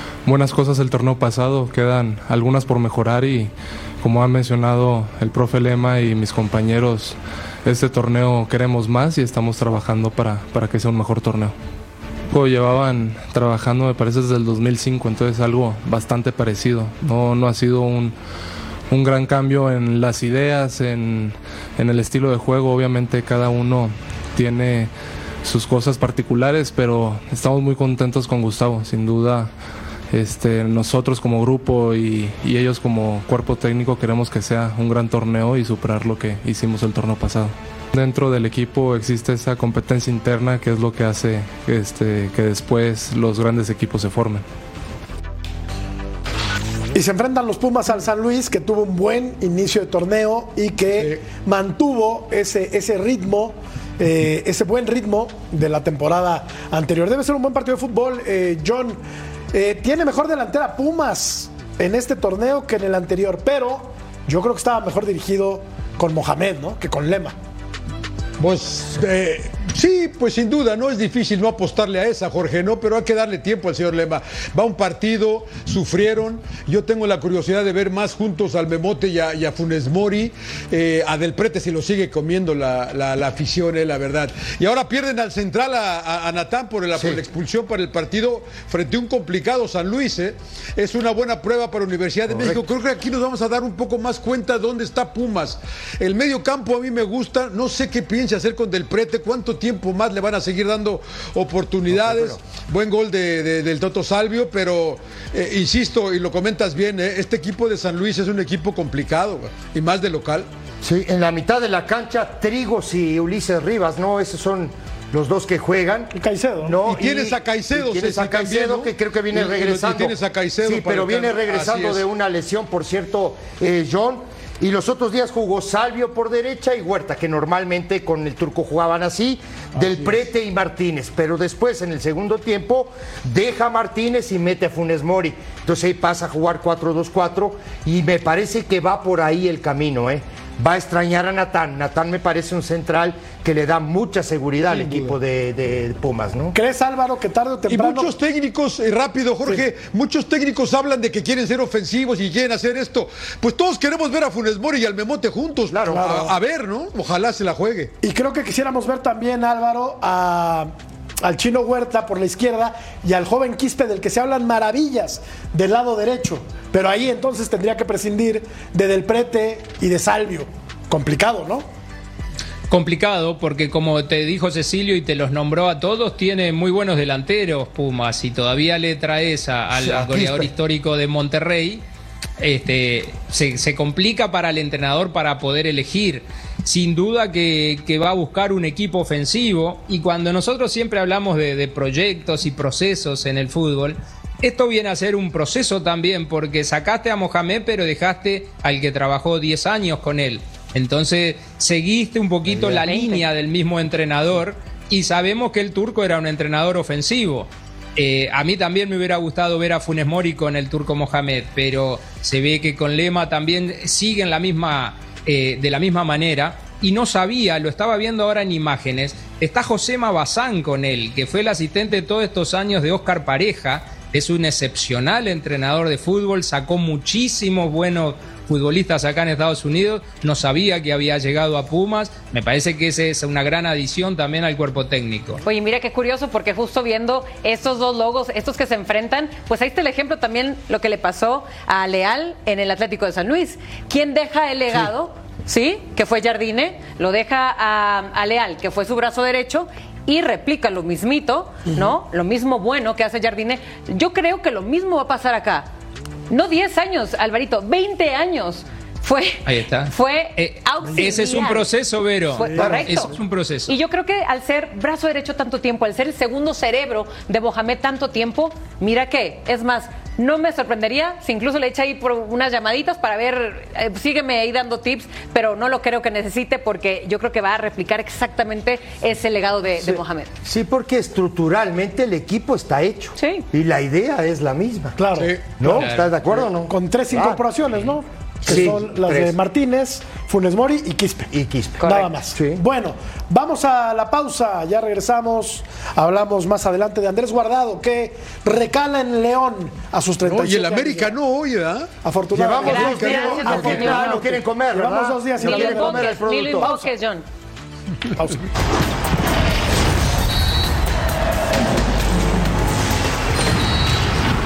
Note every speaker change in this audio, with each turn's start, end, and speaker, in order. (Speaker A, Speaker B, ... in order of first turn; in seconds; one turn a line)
Speaker A: 0.2-11.5
Speaker A: 12.3-18.1
Speaker A: 18.9-24.9
Speaker A: 25.4-29.5
Speaker A: 30.1-44.4
Speaker B: 46.9-59.0
Speaker C: 51.0-51.2
Speaker B: 59.5-67.3
Speaker C: 68.4-110.5
Speaker D: 86.9-87.2
Speaker D: 92.3-92.6
Speaker D: 101.9-102.4
Speaker D: 110.8-146.6
Speaker B: 116.1-116.8
Speaker C: 116.8-122.0
Speaker C: 129.8-130.2
Speaker B: 146.5-148.1
Speaker C: 147.7-157.9
Speaker D: 155.7-156.3
Speaker B: 155.9-156.3
Speaker B: 158.0-160.7
Speaker B: 161.2-171.6
Speaker E: 172.7-181.8
Speaker D: 179.7-180.5
Speaker E: 182.4-235.4
Speaker F: 202.6-203.1
Speaker F: 235.4-255.7
Speaker F: 256.3-261.7
Speaker E: 259.4-263.7
Speaker F: 262.3-263.1
Speaker D: 262.6-262.8
Speaker F: 263.7-280.3
Speaker D: 280.4-285.0
Speaker F: 283.2-283.4
Speaker B: 285.0-285.4
Speaker C: 285.1-285.6
Speaker D: 285.6-287.4
Speaker E: 285.6-286.1
Speaker B: 286.7-291.3
Speaker D: 288.4-289.4
Speaker D: 291.3-292.6
Speaker B: 291.8-301.1
Speaker C: 300.2-301.9
Speaker B: 302.0-306.9
Speaker D: 302.3-306.7
Speaker F: 302.6-304.2
Speaker C: 302.7-304.0
Speaker F: 305.4-307.2
Speaker B: 308.1-308.4